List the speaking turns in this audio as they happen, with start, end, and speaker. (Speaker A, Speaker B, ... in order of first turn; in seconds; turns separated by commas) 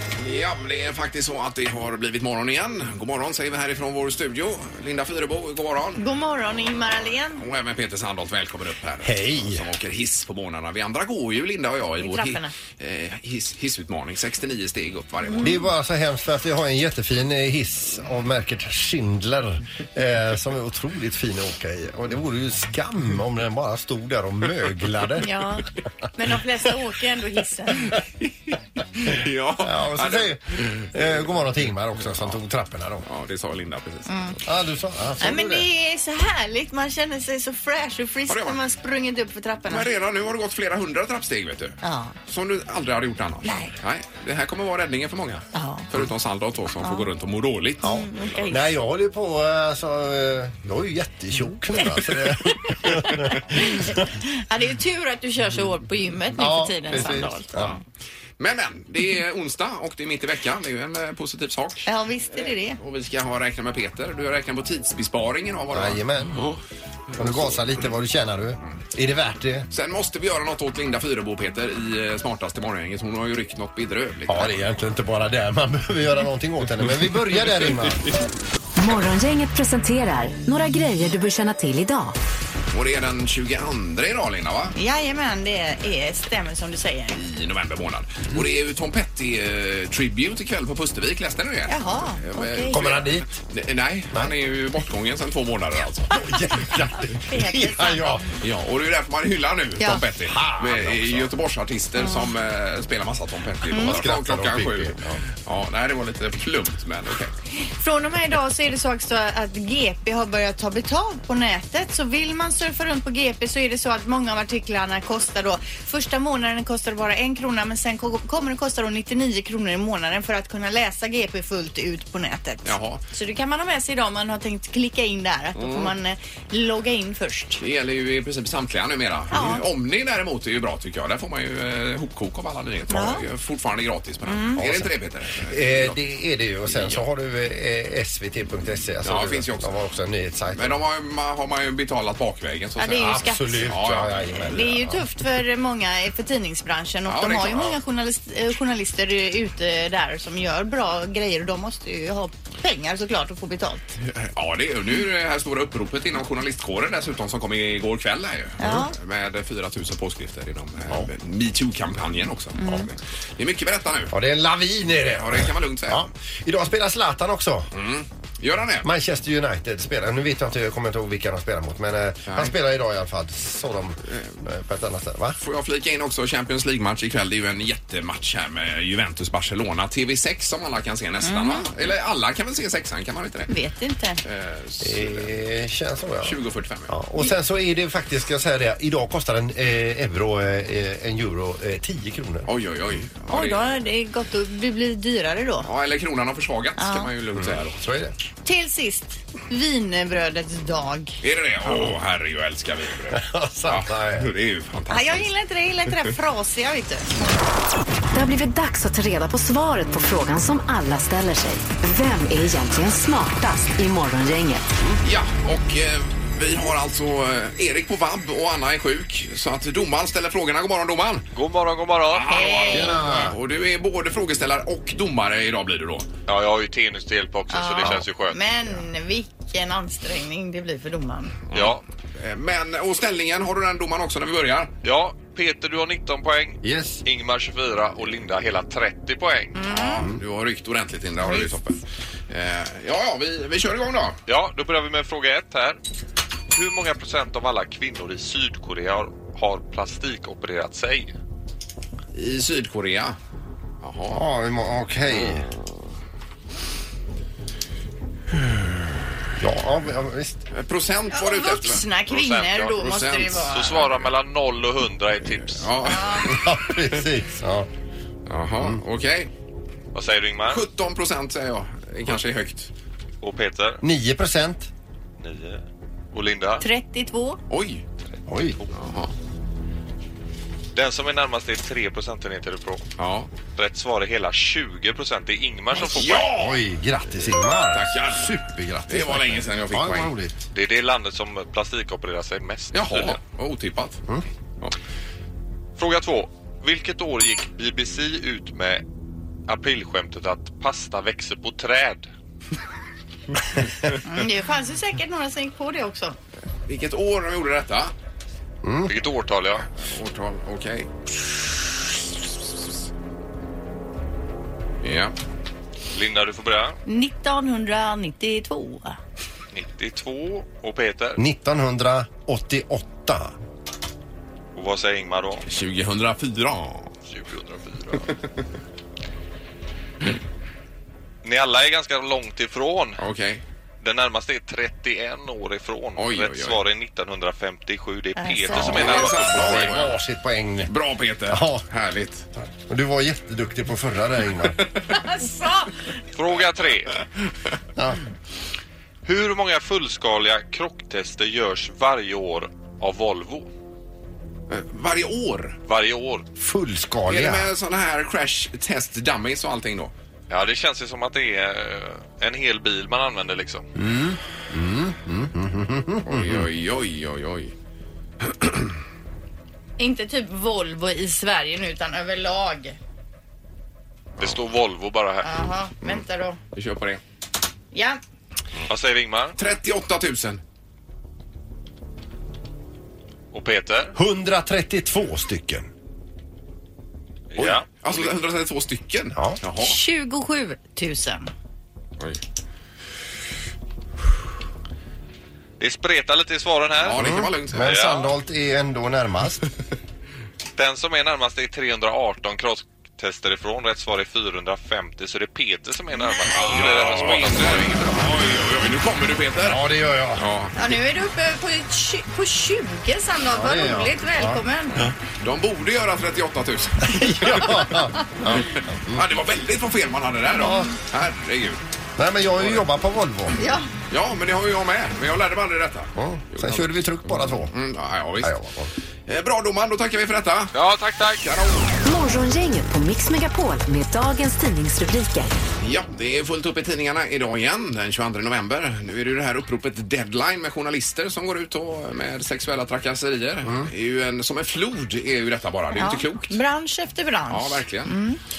Speaker A: 0.2-6.0, Speaker B: 6.0-7.4, Speaker A: 7.3-15.6, Speaker C: 9.0-9.7, Speaker B: 12.0-12.5, Speaker B: 15.2-15.5, Speaker C: 15.4-25.3, Speaker B: 25.2-27.9, Speaker A: 28.0-31.1, Speaker C: 29.6-33.0, Speaker A: 32.0-32.4, Speaker A: 33.0-34.1, Speaker B: 34.1-34.4, Speaker C: 34.5-35.7, Speaker B: 35.2-39.9, Speaker A: 38.3-38.6, Speaker A: 39.7-48.5, Speaker B: 41.8-42.1, Speaker B: 43.4-43.7, Speaker B: 45.5-45.9, Speaker B: 47.8-48.6, Speaker C: 47.8-53.9, Speaker B: 52.5-57.8, Speaker C: 56.4-57.8, Speaker A: 58.4-66.6, Speaker B: 61.9-62.8, Speaker C: 65.7-66.4, Speaker A: 67.1-67.7, Speaker C: 67.2-69.7, Speaker A: 69.7-74.5, Speaker C: 74.3-78.1, Speaker A: 77.5-78.1, Speaker D: 78.8-82.1, Speaker A: 82.7-84.8, Speaker B: 84.8-87.2, Speaker A: 87.1-96.1, Speaker B: 91.7-92.9, Speaker C: 92.7-93.4, Speaker C: 96.1-98.3, Speaker B: 97.1-98.3, Speaker A: 98.4-107.3, Speaker C: 100.3-101.3, Speaker B: 103.7-104.0, Speaker C: 103.8-105.2, Speaker B: 107.6-127.6, Speaker A: 122.6-123.0, Speaker A: 125.5-125.9, Speaker A: 127.6-136.0, Speaker B: 129.3-129.6, Speaker B: 132.9-133.2, Speaker B: 134.2-134.6, Speaker C: 134.6-134.9, Speaker C: 135.5-140.8, Speaker A: 136.7-137.0, Speaker A: 139.0-139.7, Speaker A: 140.5-144.7, Speaker B: 142.8-143.6, Speaker C: 143.0-145.0, Speaker B: 144.5-154.0, Speaker A: 147.1-147.8, Speaker A: 154.0-164.1, Speaker B: 158.6-158.9, Speaker B: 162.6-162.9, Speaker C: 164.1-167.7, Speaker A: 165.2-166.0, Speaker A: 167.7-168.9, Speaker C: 168.8-175.4, Speaker A: 172.2-172.5, Speaker A: 174.1-174.4, Speaker A: 175.4-183.5, Speaker B: 181.2-181.7, Speaker B: 183.5-184.2, Speaker A: 184.2-185.4, Speaker C: 184.8-186.4, Speaker A: 186.2-186.9, Speaker C: 186.9-192.5, Speaker A: 192.4-193.7, Speaker B: 193.3-195.7, Speaker A: 195.6-197.8, Speaker B: 196.8-197.1, Speaker C: 197.3-198.1, Speaker B: 198.4-201.2, Speaker A: 201.2-205.3, Speaker C: 201.6-201.9, Speaker C: 203.1-204.3, Speaker B: 204.9-207.1, Speaker D: 208.1-214.7, Speaker A: 215.0-221.3, Speaker E: 221.3-222.4, Speaker A: 222.1-226.1, Speaker B: 222.3-223.0, Speaker C: 222.7-223.3, Speaker E: 226.3-228.4, Speaker B: 227.5-231.4, Speaker A: 231.5-234.7, Speaker E: 231.5-231.8, Speaker E: 234.8-240.0, Speaker C: 236.6-237.0, Speaker B: 239.5-240.0, Speaker A: 240.2-244.2, Speaker E: 244.3-245.8, Speaker E: 246.5-251.1, Speaker A: 252.1-253.2, Speaker A: 253.8-254.2, Speaker C: 254.1-255.5, Speaker A: 255.1-255.7, Speaker A: 258.5-258.7, Speaker C: 259.4-260.4, Speaker A: 260.5-261.9, Speaker B: 261.1-263.9, Speaker E: 262.1-262.9, Speaker A: 262.8-264.1, Speaker E: 263.5-265.8, Speaker A: 265.3-266.8, Speaker B: 265.8-266.3, Speaker C: 266.3-267.7, Speaker A: 268.3-269.3, Speaker E: 269.9-270.6, Speaker A: 270.5-272.7, Speaker E: 273.2-273.8, Speaker C: 273.8-274.7, Speaker E: 275.2-275.6, Speaker E: 276.1-276.6, Speaker B: 276.6-277.4, Speaker A: 277.5-277.8, Speaker C: 278.3-278.6, Speaker A: 278.7-279.1, Speaker E: 280.7-282.8, Speaker A: 283.0-283.3, Speaker E: 283.5-286.4, Speaker A: 285.8-286.6, Speaker C: 286.1-290.4, Speaker A: 287.7-290.1, Speaker E: 290.5-293.2, Speaker A: 292.7-294.0, Speaker E: 295.8-298.8, Speaker E: 299.5-302.1, Speaker B: 304.0-306.1, Speaker A: 306.7-307.9, Speaker C: 308.6-308.9, Speaker E: 308.9-309.6, Speaker A: 309.8-310.9, Speaker A: 314.8-315.1, Speaker E: 315.9-316.8, Speaker B: 316.9-318.9, Speaker E: 319.5-321.2, Speaker C: 321.2-323.3, Speaker E: 324.5-325.4, Speaker A: 325.5-326.9, Speaker E: 327.1-328.1, Speaker E: 331.2-333.0, Speaker A: 333.0-333.4, Speaker E: 333.8-339.6, Speaker A: 336.0-336.6, Speaker B: 338.2-338.6, Speaker A: 338.5-340.0, Speaker C: 338.6-340.7, Speaker A: 340.6-342.3, Speaker C: 341.3-341.6, Speaker C: 342.7-344.6, Speaker B: 344.9-345.7, Speaker E: 346.1-346.9, Speaker E: 349.0-353.5, Speaker A: 354.5-355.6, Speaker E: 355.7-356.3, Speaker C: 356.4-357.5, Speaker A: 357.1-359.9, Speaker E: 360.3-363.7, Speaker C: 363.8-366.4, Speaker A: 366.0-367.5, Speaker A: 368.4-368.7, Speaker B: 369.8-372.8, Speaker E: 374.2-375.4, Speaker B: 375.2-376.4, Speaker A: 376.5-377.0, Speaker B: 377.7-378.0, Speaker E: 378.7-379.4, Speaker A: 379.4-380.4, Speaker E: 383.3-383.9, Speaker C: 383.9-385.7, Speaker E: 387.3-387.6, Speaker A: 387.4-389.8, Speaker C: 389.1-389.4, Speaker B: 389.6-391.3, Speaker E: 395.6-398.1, Speaker A: 396.8-397.9, Speaker C: 397.0-399.4, Speaker E: 400.6-407.9, Speaker A: 406.3-409.6, Speaker C: 409.4-410.2, Speaker A: 410.1-410.6, Speaker B: 410.6-414.8, Speaker C: 413.3-414.9, Speaker A: 415.2-421.6, Speaker C: 416.9-419.0, Speaker C: 420.4-420.7, Speaker B: 420.4-420.7, Speaker C: 422.0-423.4, Speaker A: 422.4-422.6, Speaker B: 423.4-423.6, Speaker A: 423.9-428.3, Speaker C: 425.9-427.5, Speaker C: 428.2-428.7, Speaker A: 429.1-430.5, Speaker E: 430.5-431.3, Speaker A: 431.2-431.7, Speaker D: 431.8-435.3, Speaker A: 435.6-446.4, Speaker C: 443.4-443.7, Speaker B: 445.8-448.2, Speaker A: 447.3-447.9